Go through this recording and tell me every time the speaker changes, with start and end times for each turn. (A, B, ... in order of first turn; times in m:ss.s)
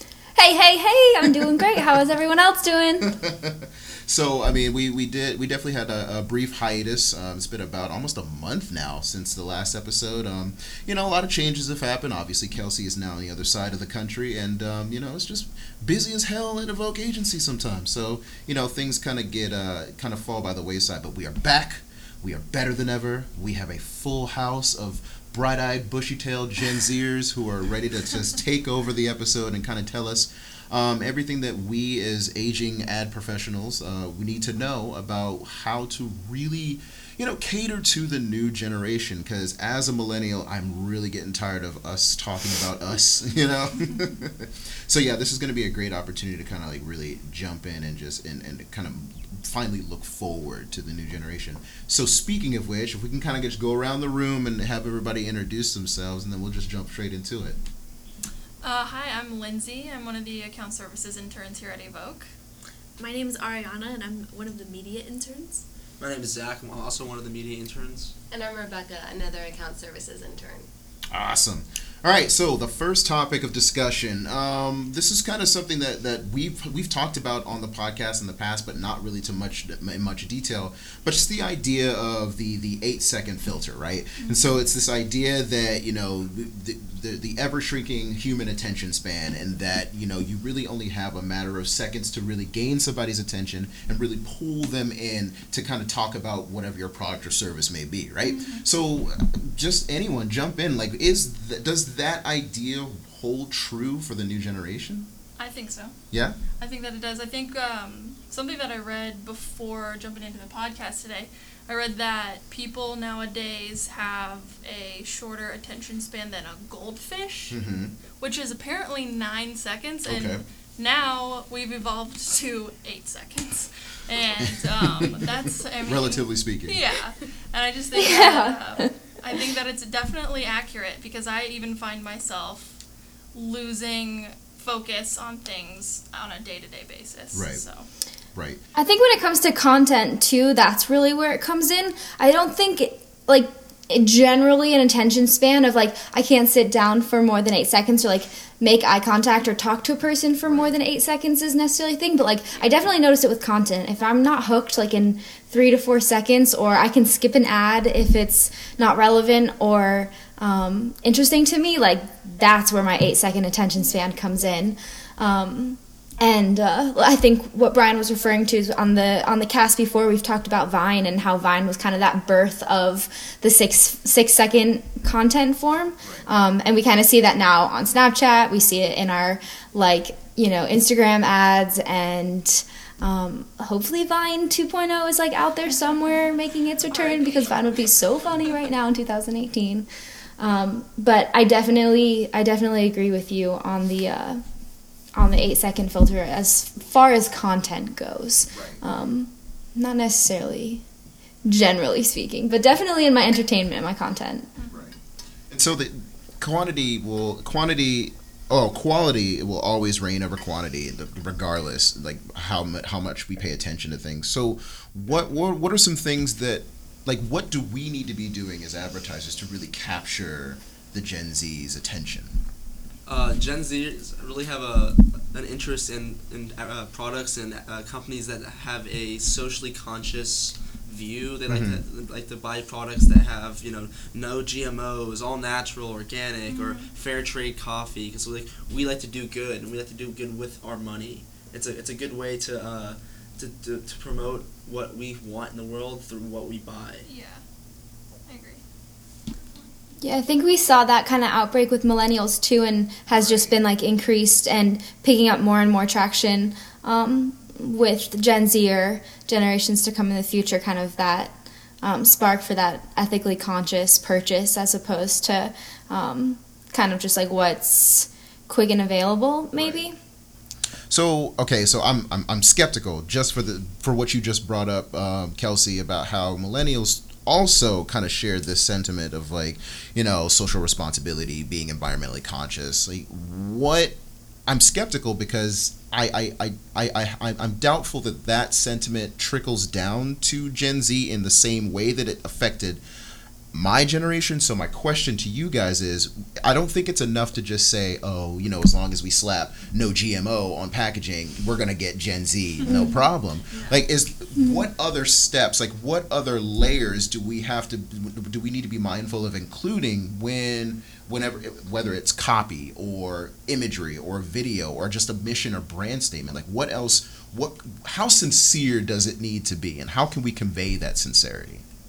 0:00.4-0:03.1 A
0:03.0-0:57.6 B
0:58.6-1:02.3 C
1:03.0-1:05.6 D
1:06.0-1:08.1 E
1:08.3-1:10.7 F
1:11.1-1:45.1 B
1:24.2-1:24.5 C
1:38.2-1:38.6 C
1:45.4-1:46.0 C
1:46.1-1:46.4 B
1:46.6-1:57.6 C
1:57.5-1:58.0 B
1:58.2-2:12.8 C
2:00.1-2:00.4 B
2:05.8-2:06.8 B
2:08.0-2:08.9 A
2:13.3-2:17.9 C
2:17.3-2:17.6 B
2:18.3-2:18.6 B
2:18.8-3:09.9 A
2:30.4-2:30.8 B
2:56.0-2:56.3 B
3:05.7-3:06.2 C
3:06.9-3:07.8 C
3:10.4-3:14.4 A
3:15.1-3:20.8 A
3:18.5-3:18.8 B
3:21.4-3:24.5 A
3:24.7-3:25.0 B
3:25.5-3:42.4 B
3:43.1-4:07.1 E
3:51.5-3:51.8 B
3:56.5-3:56.9 C
4:07.0-4:07.4 C
4:08.3-4:08.6 C
4:09.4-4:09.7 C
4:10.0-4:30.0 A
4:13.1-4:13.5 B
4:29.6-4:29.8 B
4:30.9-4:52.8 B
4:53.5-5:21.6 B
5:02.7-5:03.0 A
5:04.4-5:04.7 A